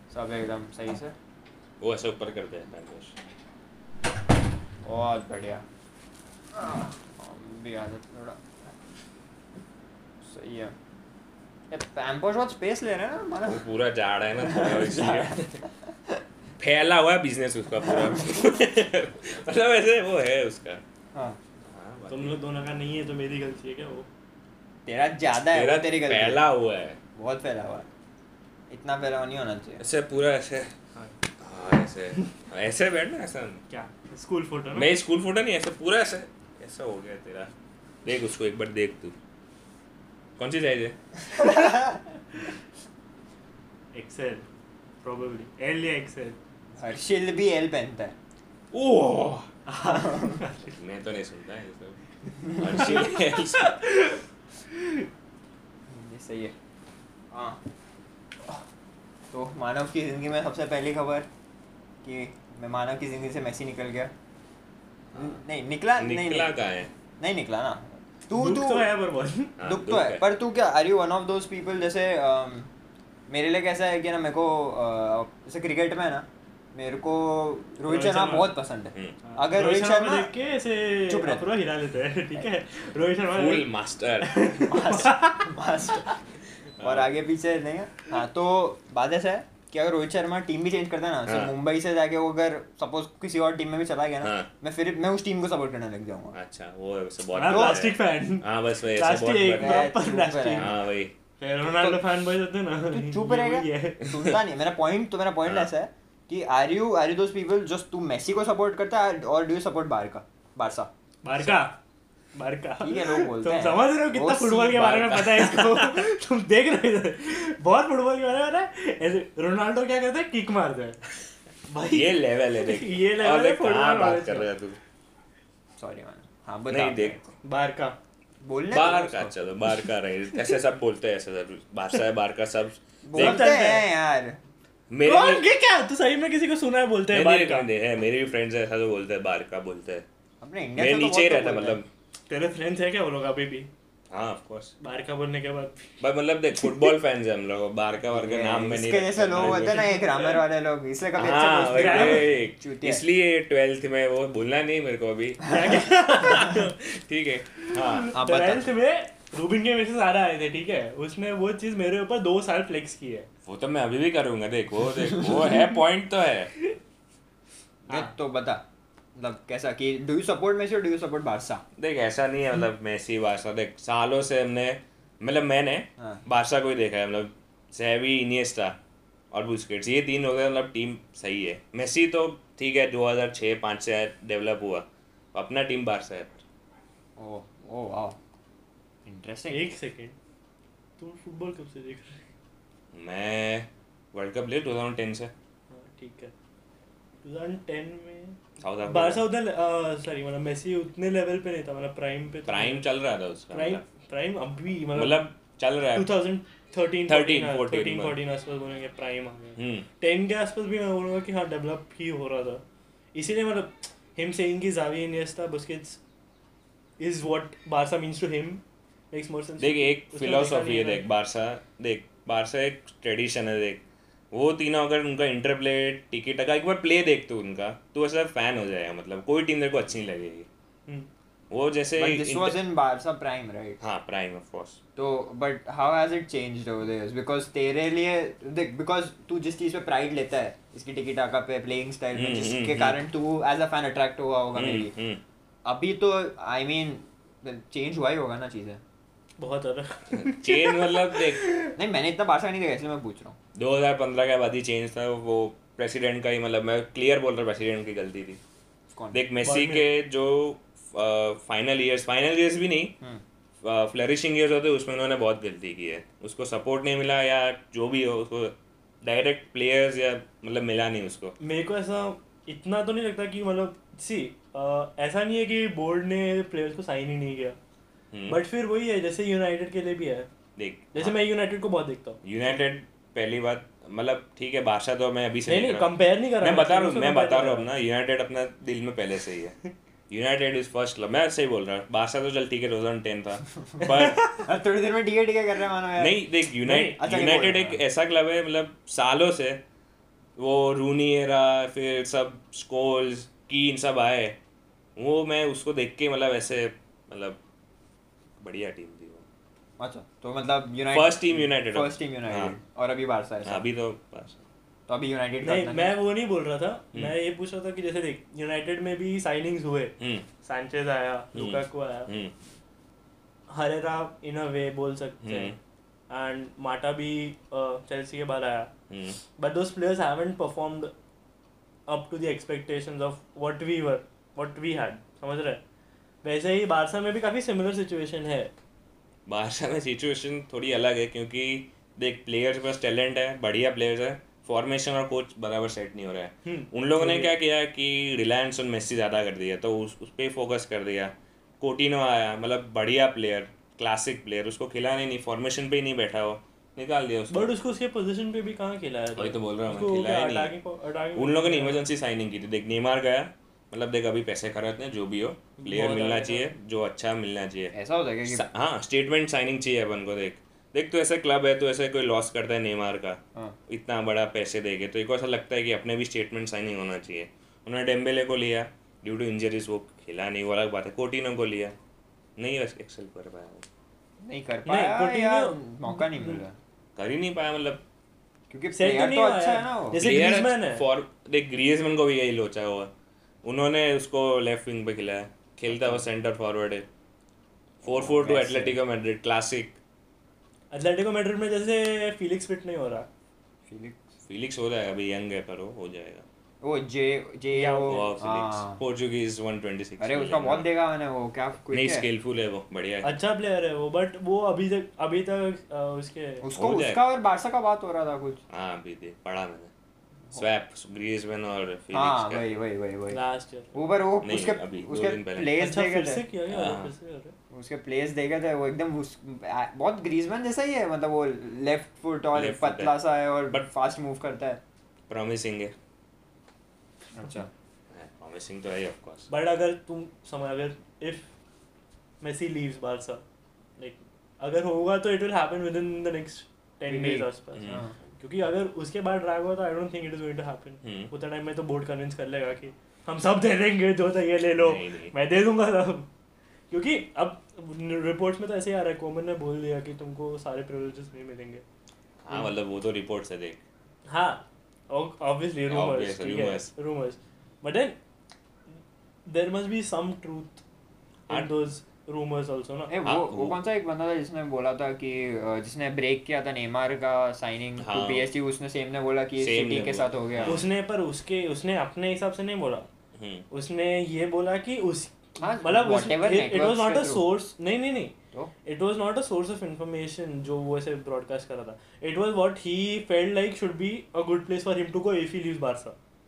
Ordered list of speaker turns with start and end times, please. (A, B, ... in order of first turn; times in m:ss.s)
0:00.1-0:01.1 A
0:01.8-0:03.1 B
0:04.8-0:05.6 A
0:06.5-0:08.4 A
0:10.2-0:10.7 A
0:11.7-0:13.6 A
0:13.4-0:15.6 B
0:14.4-0:15.4 A
0:16.6-0:20.8 B
0:21.6-0:22.4 B
0:22.1-0:24.1 C
0:24.8-0:26.4 A
0:25.3-0:27.0 B
0:27.2-0:27.9 A
0:28.7-0:29.8 A
0:29.8-0:30.7 B
0:31.4-0:33.6 B
0:33.7-0:34.9 C
0:34.7-0:37.5 B
0:38.0-0:39.1 B
0:40.4-0:41.0 B
0:41.3-0:42.0 A
0:43.9-0:44.4 C
0:45.0-0:46.4 C
0:46.8-0:48.2 A
0:48.7-0:49.5 B
0:49.6-0:50.8 C
0:49.8-0:50.4 A
0:50.6-0:53.9 B
0:52.5-0:54.2 C
0:55.9-0:56.5 A
0:57.3-0:57.6 A
0:59.3-1:01.3 A
1:02.0-1:04.1 A
1:05.1-1:05.4 B
1:05.1-1:06.5 A
1:06.0-1:06.9 B
1:07.2-1:08.9 A
1:08.3-1:09.6 C
1:09.6-1:10.2 B
1:09.6-1:12.7 A
1:13.3-1:20.3 A
1:17.9-1:18.5 C
1:18.9-1:19.2 B
1:19.2-1:23.7 C
1:21.0-1:21.5 A
1:23.3-1:24.5 B
1:24.2-1:25.5 C
1:24.5-1:26.1 A
1:26.8-1:27.2 B
1:26.8-1:36.4 A
1:31.3-1:31.5 B
1:34.2-1:34.5 B
1:36.3-1:39.9 B
1:37.3-1:40.7 C
1:37.4-1:37.8 A
1:39.6-1:40.8 A
1:40.6-1:41.1 B
1:41.4-1:44.3 C
1:42.9-1:50.9 A
1:51.2-1:51.8 C
1:52.3-2:01.0 C
1:52.8-1:56.0 A
2:01.7-2:04.5 C
2:01.9-2:04.8 B
2:05.8-2:07.2 A
2:06.7-2:07.2 B
2:07.4-2:08.0 C
2:08.4-2:09.3 A
2:08.7-2:13.5 B
2:13.0-2:14.4 A
2:13.1-2:13.9 C
2:14.9-2:15.4 B
2:15.0-2:17.7 C
2:17.1-2:20.0 B
2:20.4-2:21.8 A
2:20.8-2:21.9 B
2:22.3-2:23.7 C
2:24.1-2:24.7 B
2:24.8-2:25.9 C
2:26.0-2:29.9 B
2:28.1-2:33.0 A
2:29.4-2:30.4 C
2:31.1-2:38.2 B
2:31.7-2:32.3 C
2:35.4-2:36.8 C
2:37.6-2:43.3 C
2:38.1-2:38.6 A
2:43.4-2:46.5 B
2:47.9-2:48.6 A
2:49.2-2:51.6 A
2:51.8-2:58.8 B
2:59.3-3:06.4 B
3:07.2-3:08.2 A
3:09.0-3:09.7 A
3:09.5-3:10.2 C
3:11.0-3:12.2 C
3:12.9-3:15.3 B
3:15.7-3:16.3 C
3:17.2-3:22.8 C
3:18.6-3:19.2 B
3:22.5-3:23.8 B
3:23.5-3:25.2 C
3:24.9-3:26.1 B
3:25.9-3:32.6 C
3:27.1-3:28.2 B
3:29.6-3:29.9 B
3:33.1-3:36.0 C
3:37.0-3:41.0 C
3:39.6-3:50.5 B
3:51.5-3:52.6 B
3:52.0-3:53.8 A
3:53.8-3:54.8 B
3:55.0-4:04.9 A
4:02.1-4:03.0 B
4:04.5-4:05.2 B
4:05.6-4:08.8 A
4:09.4-4:11.7 C
4:10.1-4:11.5 B
4:11.8-4:13.4 A
4:13.5-4:18.4 B
4:18.9-4:19.2 A
4:19.1-4:22.9 B
4:19.4-4:19.8 C
4:23.6-4:31.4 B
4:31.4-4:37.6 C
4:38.1-4:38.4 B
4:38.3-4:40.3 C
4:40.6-4:41.2 B
4:40.9-4:42.2 C
4:42.2-4:49.6 B
4:45.4-4:47.7 C
4:50.1-4:54.5 B
4:53.8-4:56.2 A
4:56.0-4:59.6 B
4:56.6-4:57.0 C
4:57.0-4:57.8 A
5:00.4-5:04.4 B
5:05.0-5:07.4 B
5:08.4-5:09.2 B
5:09.8-5:13.6 A
5:10.9-5:12.6 B
5:13.4-5:14.4 B
5:14.9-5:15.9 A
5:15.4-5:22.1 C
5:20.0-5:20.3 B
5:21.3-5:22.3 B
5:23.5-5:25.5 C
5:25.2-5:25.6 B
5:26.1-5:28.7 C
5:28.9-5:29.2 B
5:29.4-5:30.9 C
5:31.9-5:35.6 C
5:36.2-5:38.5 C
5:39.3-5:57.5 B
5:46.4-5:47.3 C
5:57.3-6:01.8 C
5:59.2-6:00.5 B
6:01.2-6:07.7 B
6:05.6-6:06.5 C
6:07.7-6:08.5 A
6:08.2-6:21.7 B
6:22.4-6:23.6 B
6:24.2-6:26.6 A
6:24.6-6:26.4 C
6:27.0-6:27.8 B
6:28.5-6:30.1 A
6:28.7-6:30.8 C
6:29.9-6:32.9 B
6:33.4-6:36.8 B
6:35.7-6:36.1 A
6:37.8-6:39.8 B
6:37.8-6:38.8 A
6:40.7-6:43.1 C
6:43.6-6:44.0 A
6:44.2-6:46.2 B
6:46.6-6:48.8 A
6:47.5-6:48.1 C
6:47.8-6:50.7 B
6:50.0-6:52.1 A
6:51.7-6:53.1 B
6:53.0-6:56.4 C
6:56.4-6:58.4 A
6:56.5-6:57.0 B
6:58.5-6:59.7 B
7:00.3-7:02.5 B
7:01.9-7:03.2 A
7:03.1-7:03.8 C
7:03.7-7:06.2 A
7:04.2-7:05.6 B
7:05.5-7:07.4 C
7:06.5-7:06.9 B
7:07.5-7:14.6 A
7:12.3-7:12.9 B
7:15.1-7:15.7 B
7:17.1-7:17.5 A
7:17.9-7:19.3 B
7:19.3-7:21.3 C
7:22.2-7:23.2 C
7:23.8-7:36.1 C
7:26.9-7:27.9 A
7:27.5-7:27.8 B
7:30.8-7:31.1 B
7:34.6-7:35.1 B
7:36.7-7:41.6 C
7:42.2-7:43.6 B
7:44.1-7:48.0 C
7:45.7-7:46.7 B
7:49.3-7:50.6 C
7:51.3-7:51.5 B
7:51.3-7:52.9 C
7:52.9-8:00.6 A
7:53.0-7:53.6 B
7:57.8-7:58.3 B
7:59.4-8:00.6 B
8:00.4-8:02.9 C
8:03.2-8:03.4 B
8:03.5-8:16.0 C
8:05.4-8:07.2 A